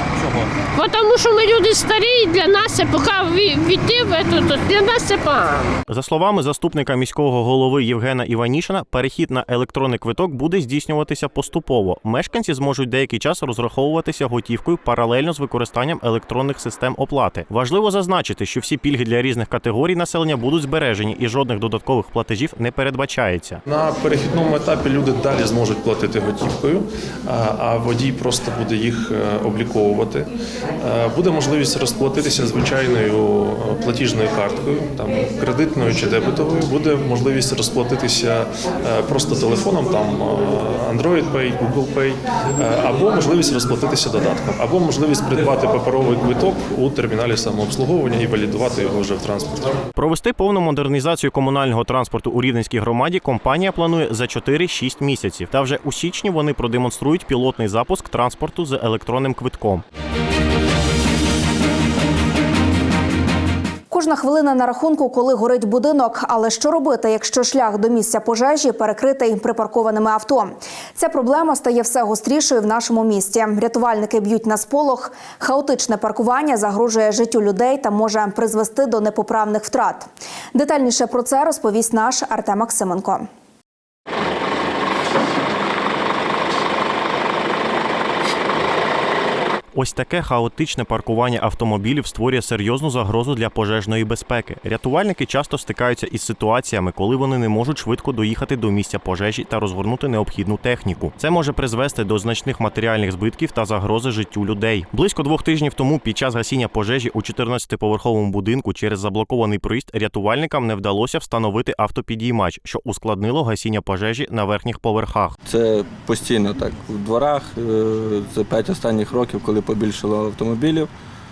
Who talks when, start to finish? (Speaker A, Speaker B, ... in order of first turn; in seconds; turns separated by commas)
Speaker A: 0.7-5.7, Speaker B: 5.9-23.6, Speaker C: 23.7-30.3, Speaker C: 30.8-49.5, Speaker B: 50.0-59.8, Speaker D: 63.9-83.3, Speaker B: 89.7-115.3, Speaker E: 115.4-120.9